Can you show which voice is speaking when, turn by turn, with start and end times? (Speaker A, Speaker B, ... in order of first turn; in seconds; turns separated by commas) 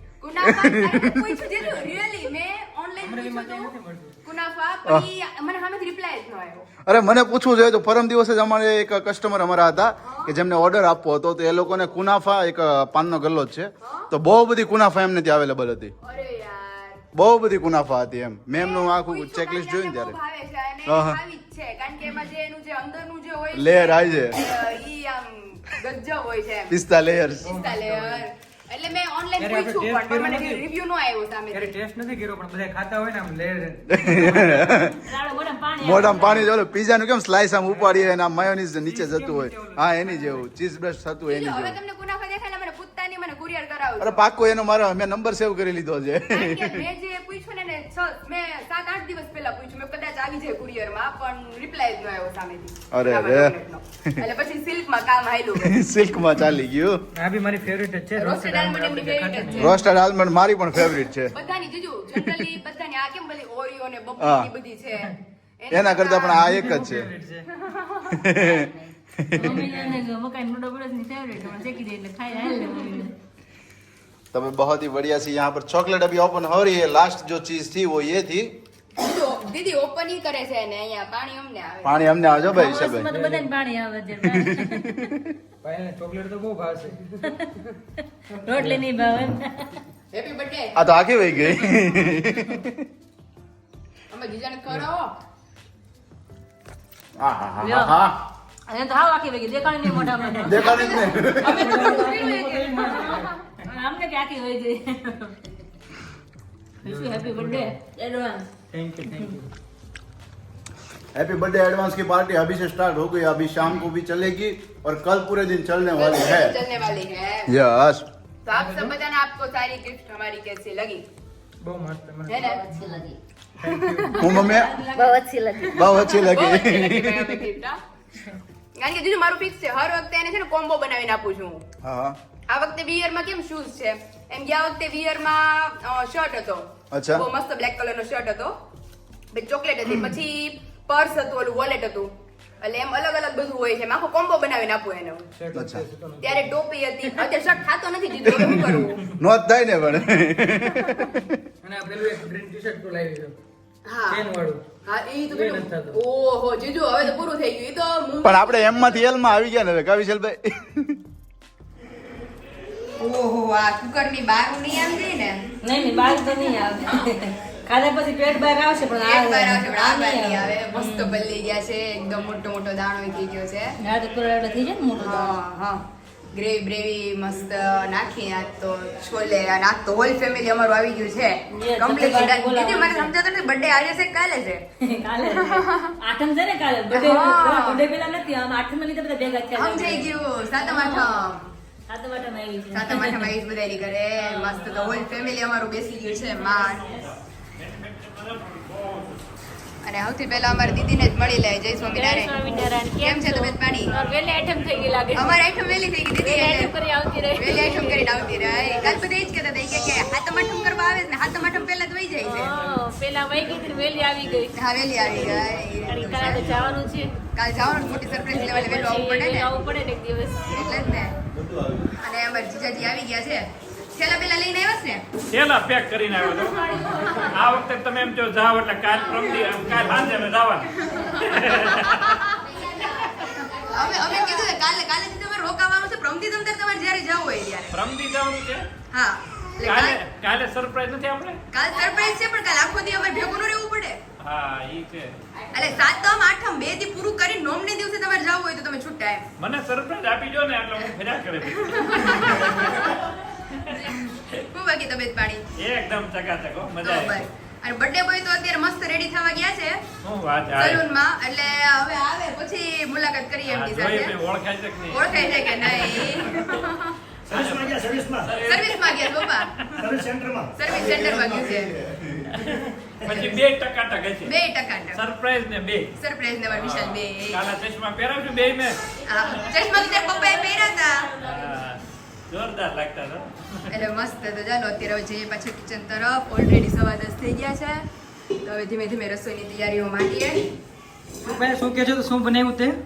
Speaker A: 0.2-3.7, Speaker B: 0.4-1.3, Speaker C: 3.0-4.2, Speaker A: 4.2-6.7, Speaker B: 6.8-15.9, Speaker A: 10.0-10.4, Speaker A: 13.8-14.1, Speaker A: 16.0-17.0, Speaker B: 17.1-20.2, Speaker A: 18.5-26.7, Speaker B: 20.9-21.2, Speaker B: 23.5-24.5, Speaker B: 26.7-27.5, Speaker C: 27.4-28.3, Speaker A: 27.4-31.7, Speaker C: 29.4-30.6, Speaker C: 31.5-34.9, Speaker B: 33.9-35.0, Speaker D: 35.0-36.5, Speaker B: 35.8-41.8, Speaker C: 37.7-38.2, Speaker C: 38.8-40.4, Speaker A: 41.2-44.2, Speaker B: 44.0-46.8, Speaker A: 46.2-55.7, Speaker B: 52.9-53.5, Speaker B: 55.5-57.0, Speaker C: 57.1-59.8, Speaker A: 58.1-59.7, Speaker B: 59.5-61.3, Speaker A: 61.3-66.6, Speaker B: 62.2-62.5, Speaker B: 64.2-64.5, Speaker B: 65.7-67.1, Speaker C: 66.3-67.5, Speaker A: 67.6-68.2, Speaker B: 68.1-69.7, Speaker E: 68.2-68.9, Speaker D: 69.3-73.1, Speaker C: 69.4-70.0, Speaker B: 74.3-78.6, Speaker A: 79.0-82.1, Speaker B: 81.8-83.1, Speaker D: 82.5-85.0, Speaker C: 83.0-83.5, Speaker B: 84.2-85.3, Speaker C: 85.6-87.2, Speaker C: 88.4-88.8, Speaker D: 88.4-89.8, Speaker A: 90.1-90.8, Speaker B: 90.8-92.9, Speaker A: 94.1-95.1, Speaker B: 97.2-98.2, Speaker D: 97.6-98.0, Speaker D: 98.7-101.1, Speaker B: 100.4-101.8, Speaker A: 100.6-102.9, Speaker C: 101.3-103.3, Speaker D: 101.7-105.4, Speaker D: 106.8-108.5, Speaker C: 106.8-107.8, Speaker C: 108.7-109.5, Speaker B: 111.1-116.6, Speaker A: 116.0-117.5, Speaker B: 117.5-118.1, Speaker A: 118.4-121.0, Speaker C: 118.5-118.9, Speaker C: 121.6-122.9, Speaker A: 122.3-122.6, Speaker E: 122.3-123.2, Speaker C: 123.6-124.5, Speaker A: 123.6-127.8, Speaker B: 124.2-124.8, Speaker E: 124.9-126.1, Speaker B: 125.7-127.5, Speaker A: 128.7-131.6, Speaker B: 131.8-132.2, Speaker A: 132.5-138.6, Speaker B: 136.9-137.2, Speaker A: 139.3-145.3, Speaker C: 145.3-146.6, Speaker B: 145.5-145.8, Speaker A: 146.2-149.0, Speaker B: 148.3-151.4, Speaker C: 151.6-153.3, Speaker A: 153.8-154.3, Speaker C: 154.1-154.6, Speaker A: 154.8-158.7, Speaker C: 155.3-156.0, Speaker B: 158.2-161.0, Speaker A: 163.0-165.4, Speaker D: 165.6-171.2, Speaker A: 169.0-173.7, Speaker D: 173.8-175.4, Speaker A: 174.9-184.7, Speaker D: 181.5-183.1, Speaker D: 184.8-191.4, Speaker A: 185.2-185.9, Speaker A: 186.9-187.9, Speaker A: 189.5-191.5, Speaker D: 191.9-193.3, Speaker A: 192.7-197.0, Speaker F: 194.3-195.3, Speaker F: 196.1-199.2, Speaker A: 199.8-202.4, Speaker D: 201.8-205.5, Speaker A: 202.9-203.9, Speaker F: 203.9-205.0, Speaker A: 205.1-206.8, Speaker D: 206.1-209.0, Speaker A: 207.3-212.5, Speaker D: 212.2-217.1, Speaker G: 213.9-214.4, Speaker A: 214.5-216.5, Speaker G: 215.4-216.8, Speaker A: 217.3-219.6, Speaker D: 218.2-221.0, Speaker A: 220.5-221.1, Speaker B: 221.3-221.9, Speaker A: 222.0-225.0, Speaker F: 225.3-232.2, Speaker D: 226.4-227.6, Speaker E: 230.8-234.6, Speaker A: 230.9-232.4, Speaker A: 233.7-237.8, Speaker F: 237.7-238.7, Speaker A: 238.9-240.0, Speaker F: 239.6-241.4, Speaker A: 241.5-244.0, Speaker E: 241.7-243.2, Speaker F: 244.2-245.2, Speaker A: 245.5-249.2, Speaker F: 249.4-254.4, Speaker A: 251.6-253.0, Speaker A: 253.7-255.4, Speaker F: 255.6-257.2, Speaker A: 256.8-259.8, Speaker F: 260.0-260.8, Speaker A: 260.5-264.1, Speaker F: 263.5-266.6, Speaker A: 264.9-266.9, Speaker G: 267.3-268.3, Speaker F: 267.3-269.8, Speaker A: 268.4-269.6, Speaker G: 269.7-270.5, Speaker A: 270.6-271.7, Speaker B: 270.7-272.4, Speaker G: 272.5-273.4, Speaker F: 273.0-274.3, Speaker A: 274.2-275.0, Speaker F: 274.9-275.9, Speaker A: 276.0-277.4, Speaker F: 276.5-278.8, Speaker D: 279.0-281.7, Speaker A: 279.0-281.1, Speaker F: 281.2-283.3, Speaker A: 283.7-287.9, Speaker A: 288.4-290.5, Speaker C: 291.2-292.8